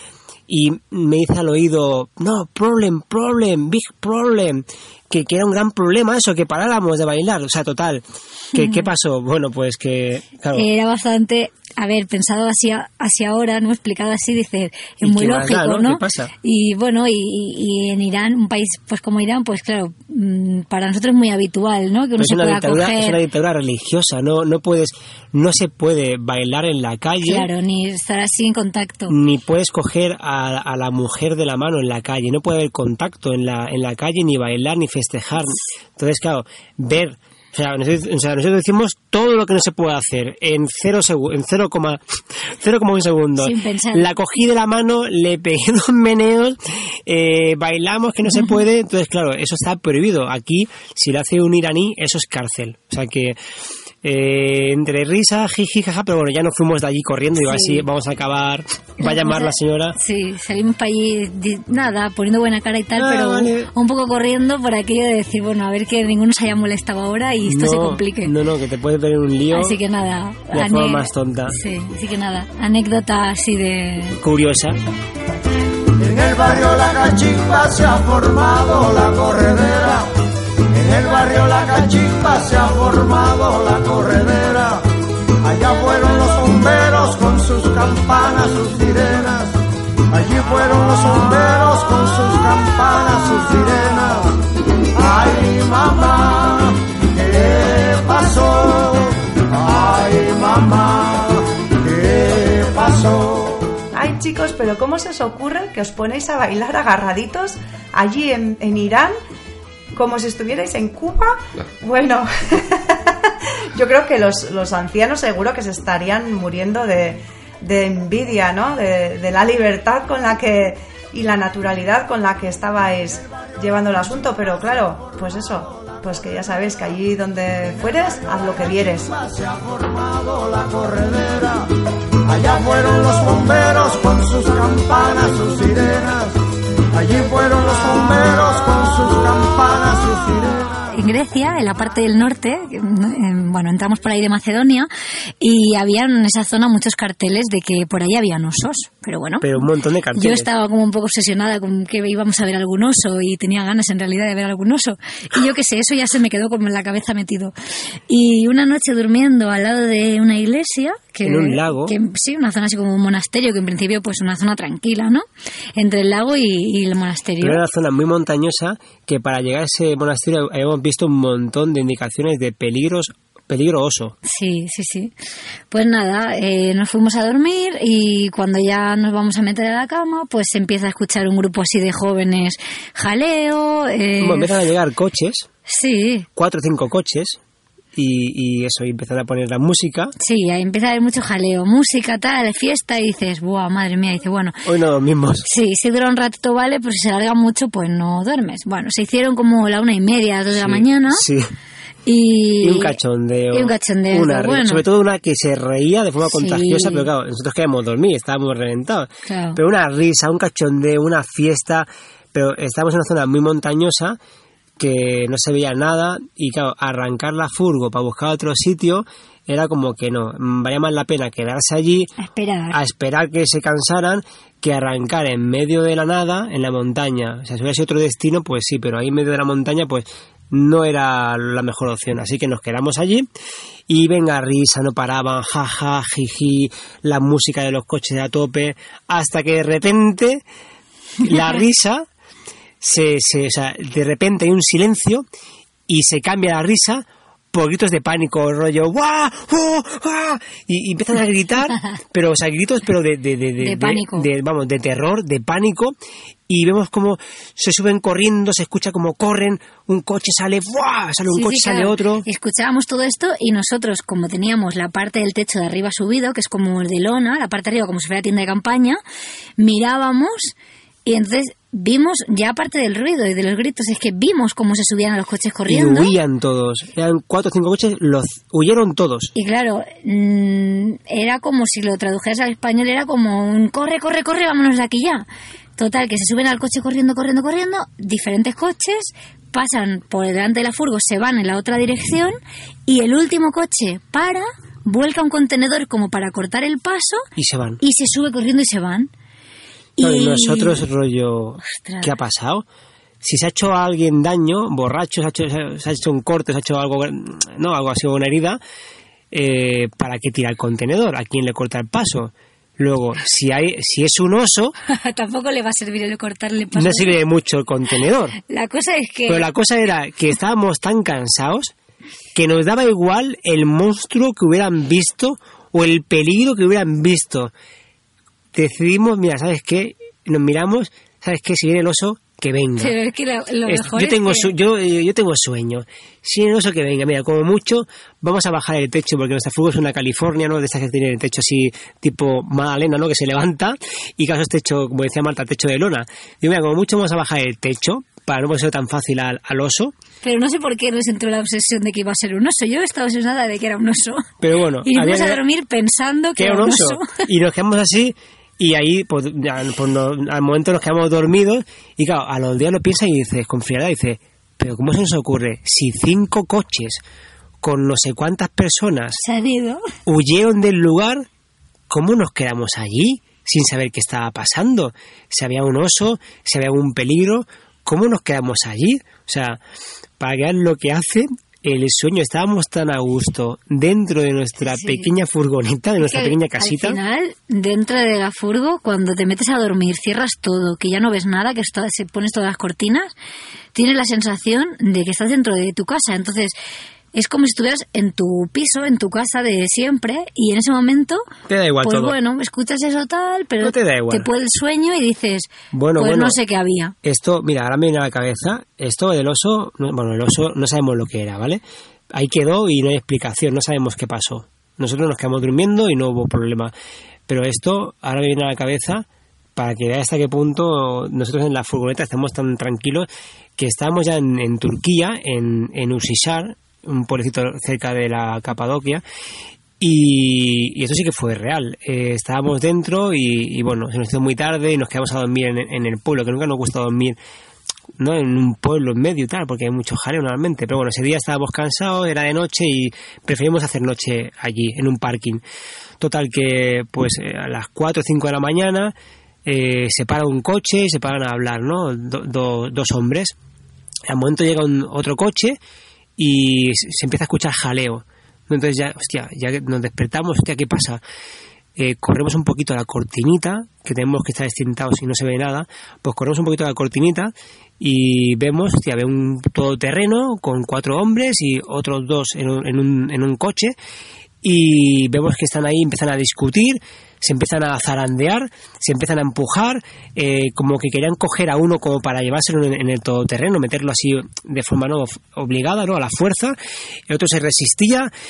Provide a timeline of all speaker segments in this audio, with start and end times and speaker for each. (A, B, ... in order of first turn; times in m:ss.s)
0:00.5-0:10.7 A
0:08.5-0:08.8 B
0:10.5-0:23.2 B
0:15.0-0:16.3 A
0:22.2-0:27.5 A
0:27.2-0:29.1 B
0:29.1-0:53.4 A
0:43.4-0:44.1 B
0:54.0-1:00.0 A
0:57.4-0:57.8 B
0:59.0-1:08.3 B
1:03.0-1:03.7 A
1:07.4-1:09.8 A
1:09.5-1:14.2 B
1:10.5-1:11.6 A
1:14.2-1:14.8 A
1:16.0-1:20.1 C
1:20.7-1:24.8 C
1:25.4-1:29.6 C
1:30.1-1:34.4 C
1:34.9-1:43.7 C
1:43.9-1:49.1 D
1:49.9-2:09.1 D
2:09.3-2:11.7 C
2:12.2-2:16.4 C
2:16.9-2:20.8 C
2:20.9-2:24.9 B
2:25.4-2:37.5 B
2:29.4-2:30.5 A
2:38.1-2:45.2 B
2:41.2-2:41.9 A
2:45.8-2:47.6 B
2:47.4-2:54.1 A
2:54.2-2:55.1 B
2:55.7-3:04.6 B
3:04.2-3:05.5 A
3:05.7-3:06.3 B
3:06.4-3:07.4 A
3:08.0-3:10.1 A
3:10.2-3:14.6 B
3:14.6-3:15.5 A
3:15.5-3:21.2 B
3:20.5-3:21.5 A
3:22.0-3:23.0 B
3:22.6-3:34.2 A
3:23.5-3:24.8 B
3:26.3-3:27.1 B
3:29.3-3:29.6 B
3:34.8-3:42.1 A
3:42.2-3:42.8 B
3:42.7-3:53.3 A
3:53.9-4:00.4 A
4:01.2-4:02.1 A
4:02.8-4:05.2 A
4:05.9-4:15.9 A
4:13.6-4:14.3 B
4:16.5-4:22.2 A
4:21.3-4:29.0 B
4:29.6-4:30.5 B
4:31.0-4:36.2 B
4:35.7-4:39.3 A
4:39.4-4:45.2 B
4:45.8-4:57.2 B
4:57.4-4:57.8 A
4:57.8-4:59.1 B
5:00.0-5:00.8 B
5:00.0-5:02.6 A
5:01.7-5:02.1 B
5:03.2-5:08.6 A
5:09.3-5:14.7 A
5:14.9-5:17.2 B
5:16.7-5:18.4 A
5:18.5-5:19.5 B
5:19.3-5:21.7 A
5:22.3-5:27.5 A
5:28.5-5:33.0 A
5:32.8-5:34.5 B
5:33.6-5:49.9 A
5:50.2-5:54.3 B
5:54.4-5:55.4 A
5:54.8-5:57.2 B
5:56.4-6:07.0 A
6:07.6-6:09.2 A
6:09.2-6:09.8 B
6:10.0-6:11.2 A
6:11.9-6:19.6 A
6:20.2-6:27.0 A
6:24.6-6:25.1 B
6:26.0-6:33.1 B
6:33.7-6:36.5 B
6:37.1-6:41.3 B
6:41.5-6:42.2 A
6:41.8-6:46.9 B
6:43.6-6:44.3 A
6:45.7-6:46.4 A
6:47.0-6:51.6 A
6:52.1-6:56.7 A
6:57.3-7:09.0 A
7:09.8-7:17.2 A
7:18.0-7:25.4 A
7:26.0-7:28.9 A
7:29.4-7:33.3 A
7:34.1-7:35.6 A
7:36.2-7:41.0 A
7:41.8-7:53.7 A
7:54.4-8:06.6 A
8:07.1-8:08.1 A